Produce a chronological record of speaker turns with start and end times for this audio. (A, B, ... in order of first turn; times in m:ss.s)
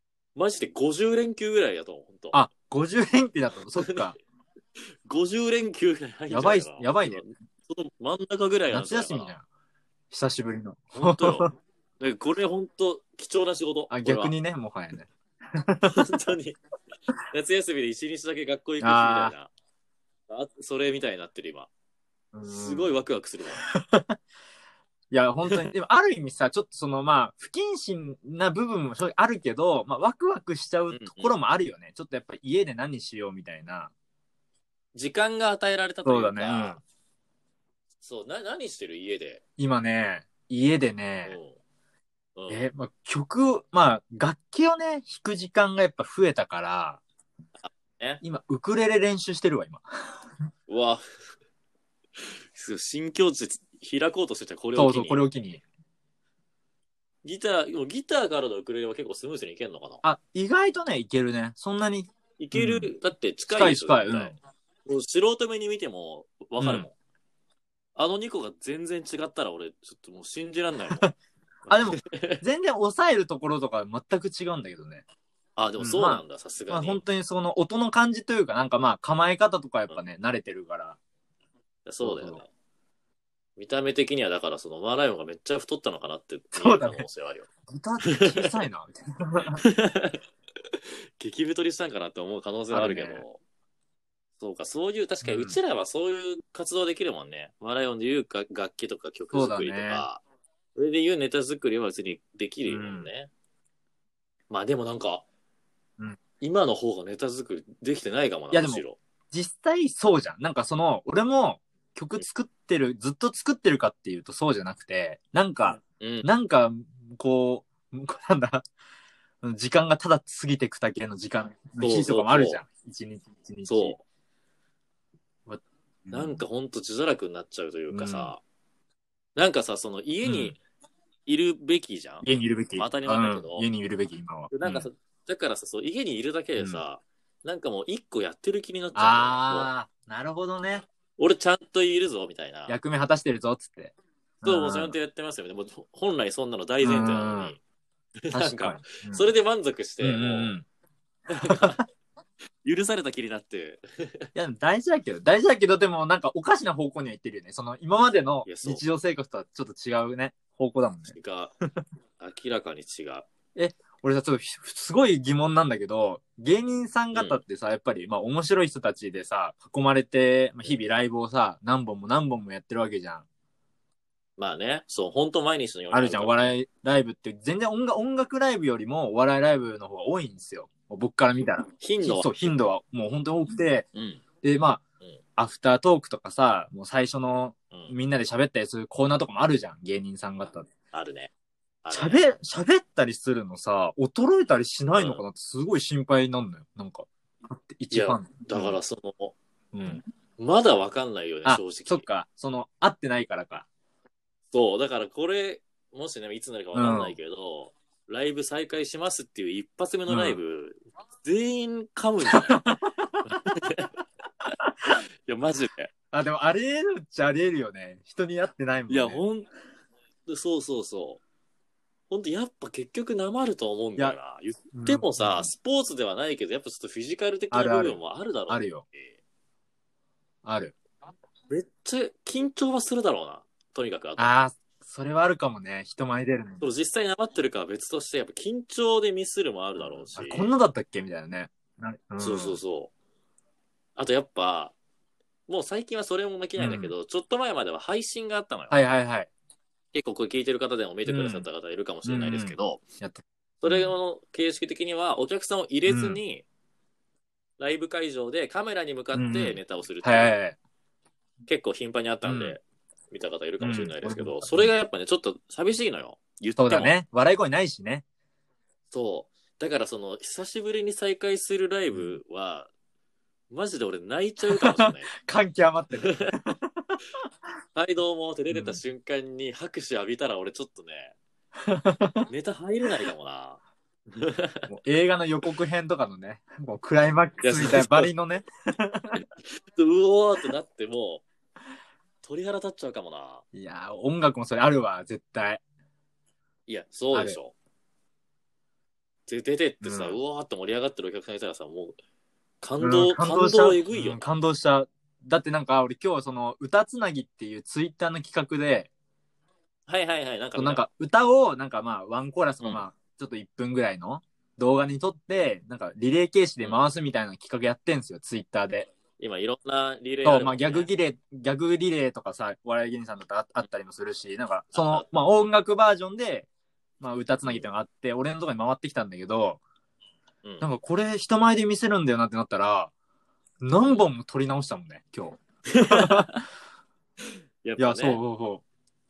0:00.4-0:02.4 A
0:02.3-0:04.2 B
0:03.8-0:04.1 A
0:05.0-0:09.4 A
0:06.3-0:07.2 B
0:08.7-0:09.4 B
0:10.1-0:11.5 B
0:10.9-0:11.5 A
0:12.0-0:14.3 A
0:13.9-0:16.0 B
0:15.8-0:16.6 A
0:17.3-0:19.5 A
0:18.8-0:19.3 B
0:20.3-0:21.7 A
0:22.3-0:22.9 B
0:22.5-0:23.6 A
0:23.6-0:24.2 B
0:25.1-0:33.9 B
0:30.9-0:31.3 A
0:34.9-0:36.8 A
0:36.0-0:36.8 B
0:38.0-0:39.4 A
0:39.6-0:41.3 B
0:41.2-0:41.6 A
0:42.4-0:42.7 A
0:42.5-0:47.0 B
0:47.6-0:48.2 A
0:48.2-0:50.2 B
0:50.7-0:51.0 A
0:52.2-0:55.2 A
0:54.7-0:55.6 B
0:57.2-1:00.0 A
1:00.0-1:02.9 B
1:02.4-1:06.9 A
1:03.5-1:04.4 B
1:06.6-1:06.9 B
1:08.0-1:11.1 A
1:11.6-1:12.4 A
1:11.7-1:15.0 B
1:15.6-1:17.0 A
1:15.8-1:21.0 B
1:21.8-1:22.5 A
1:22.0-1:22.4 B
1:23.6-1:27.5 A
1:26.6-1:27.0 B
1:27.7-1:29.6 B
1:29.7-1:30.2 A
1:30.7-1:33.4 A
1:32.7-1:33.2 B
1:34.4-1:40.2 A
1:35.2-1:35.6 B
1:39.3-1:40.0 B
1:40.7-1:43.3 A
1:42.7-1:43.1 B
1:44.5-1:45.2 A
1:46.4-1:49.0 A
1:48.5-1:58.6 B
1:56.0-1:56.3 A
1:59.4-2:04.0 B
2:01.8-2:02.6 A
2:03.6-2:04.0 A
2:05.5-2:06.4 B
2:06.1-2:08.4 A
2:07.9-2:08.3 B
2:09.4-2:10.6 A
2:10.2-2:10.5 B
2:11.2-2:12.2 A
2:12.2-2:14.9 B
2:12.8-2:13.7 A
2:14.5-2:19.7 A
2:16.6-2:16.8 B
2:18.9-2:20.8 B
2:21.2-2:22.8 A
2:22.7-2:25.0 B
2:24.4-2:27.6 A
2:26.8-2:27.5 B
2:28.2-2:30.5 A
2:28.3-2:29.3 B
2:30.0-2:30.6 B
2:31.3-2:31.8 A
2:31.4-2:31.8 B
2:32.6-2:34.3 A
2:34.3-2:41.1 B
2:38.4-2:38.8 A
2:41.1-2:41.5 A
2:42.2-2:43.2 A
2:43.5-2:53.2 B
2:47.1-2:47.4 A
2:54.4-2:56.5 A
2:55.9-3:03.9 B
3:01.8-3:02.3 A
3:03.9-3:04.2 A
3:04.4-3:04.8 B
3:05.4-3:10.7 B
3:07.7-3:08.0 A
3:10.9-3:11.3 A
3:11.8-3:12.2 A
3:11.9-3:18.8 B
3:15.0-3:15.2 A
3:17.9-3:19.3 A
3:19.7-3:20.0 B
3:20.4-3:22.0 A
3:21.4-3:23.7 B
3:24.5-3:32.6 A
3:26.7-3:27.2 B
3:30.1-3:30.4 B
3:32.3-3:33.2 B
3:33.2-3:33.9 A
3:35.2-3:35.9 A
3:36.1-3:39.2 B
3:38.9-3:39.5 A
3:40.2-3:41.2 A
3:42.1-3:49.2 A
3:44.7-3:45.5 B
3:47.5-3:48.8 B
3:50.4-3:50.8 B
3:51.5-3:54.3 A
3:54.2-3:56.7 B
3:56.6-4:00.5 A
3:59.8-4:02.6 B
4:02.2-4:02.9 A
4:04.0-4:04.7 A
4:05.5-4:08.8 A
4:06.6-4:06.9 B
4:08.7-4:09.3 B
4:09.9-4:12.8 A
4:11.0-4:11.4 B
4:12.0-4:13.9 B
4:13.6-4:16.4 A
4:15.9-4:16.2 B
4:17.6-4:20.4 A
4:19.1-4:20.6 B
4:21.5-4:27.0 A
4:22.2-4:22.6 B
4:23.6-4:24.7 B
4:26.6-4:28.0 B
4:28.9-4:32.7 A
4:31.9-4:32.2 B
4:33.5-4:35.1 A
4:34.6-4:37.0 B
4:36.0-4:36.3 A
4:37.7-4:41.2 A
4:38.5-4:38.8 B
4:41.7-4:42.2 B
4:42.3-4:43.6 A
4:44.1-4:44.7 A
4:44.7-4:49.2 B
4:47.4-4:48.1 A
4:49.7-4:51.2 A
4:52.2-4:53.4 A
4:53.5-4:55.6 B
4:56.7-4:57.5 A
4:57.1-4:57.4 B
4:59.3-5:02.0 A
4:59.8-5:00.2 B
5:02.6-5:04.3 A
5:02.8-5:08.9 B
5:09.9-5:10.8 A
5:10.6-5:18.9 B
5:19.2-5:20.9 A
5:20.2-5:26.5 B
5:24.7-5:25.1 A
5:27.0-5:29.6 B
5:30.6-5:32.9 B
5:33.6-5:36.3 B
5:35.7-5:36.4 A
5:37.6-5:38.2 A
5:37.8-5:38.6 B